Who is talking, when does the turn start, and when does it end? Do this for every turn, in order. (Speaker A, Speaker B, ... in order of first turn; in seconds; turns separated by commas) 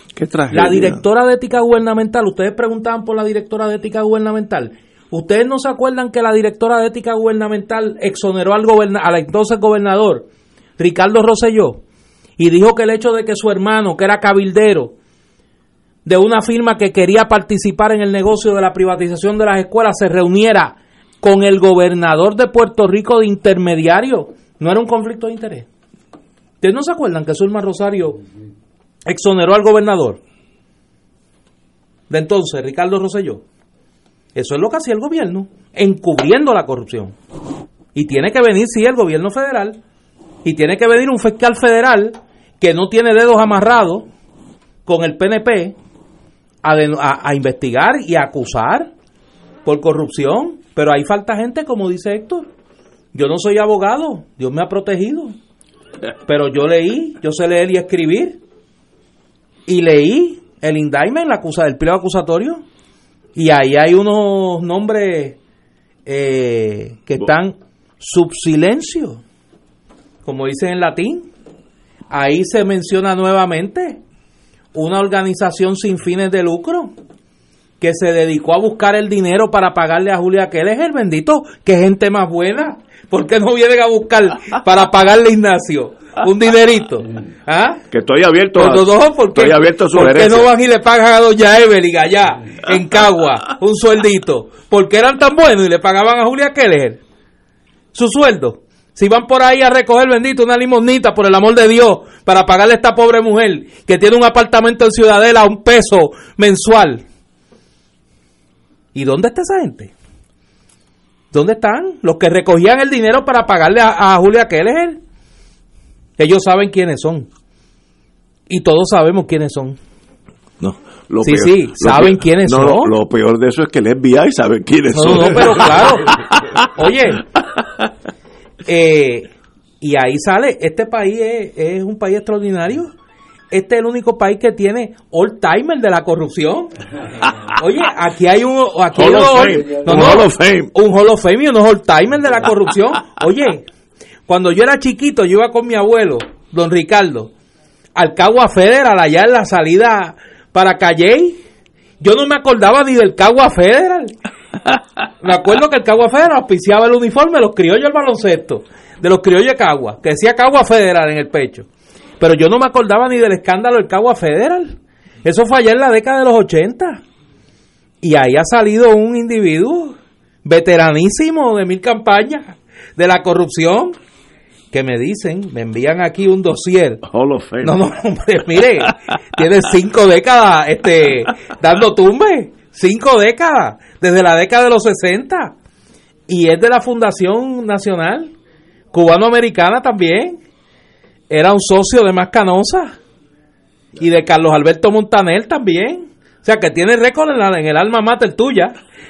Speaker A: 0.2-1.0, Speaker B: 0.5-11.8, Speaker B: 12.4-14.9, Speaker B: 16.1-25.7, Speaker B: 26.6-28.2, Speaker B: 29.1-30.2, Speaker B: 32.1-33.4, Speaker B: 34.4-37.2, Speaker B: 38.0-39.8, Speaker B: 40.5-44.1, Speaker B: 44.9-45.8, Speaker B: 46.6-48.9, Speaker B: 49.6-52.5, Speaker B: 53.1-55.4, Speaker B: 56.3-58.4, Speaker B: 59.7-62.6, Speaker B: 63.4-65.4, Speaker B: 66.1-69.2, Speaker B: 70.2-71.3, Speaker B: 72.1-74.0, Speaker B: 74.7-77.0, Speaker B: 77.8-87.9, Speaker A: 87.9-90.5, Speaker B: 88.6-97.0, Speaker B: 97.9-107.0, Speaker B: 108.9-109.9, Speaker B: 111.3-115.0, Speaker B: 116.2-117.3, Speaker B: 118.5-119.8, Speaker A: 120.6-126.7, Speaker B: 121.2-122.9, Speaker B: 124.9-126.2, Speaker B: 126.7-127.2, Speaker B: 128.7-132.9, Speaker B: 133.5-136.8, Speaker B: 137.6-143.7, Speaker A: 138.9-140.7, Speaker B: 144.3-147.3, Speaker B: 147.9-151.4, Speaker B: 152.0-154.2, Speaker B: 155.2-161.7, Speaker B: 162.2-167.0, Speaker B: 168.0-174.0, Speaker B: 174.7-177.0, Speaker A: 177.1-177.8, Speaker B: 177.6-185.6, Speaker B: 186.3-188.3, Speaker B: 188.9-190.4, Speaker B: 191.3-193.0, Speaker B: 194.0-198.8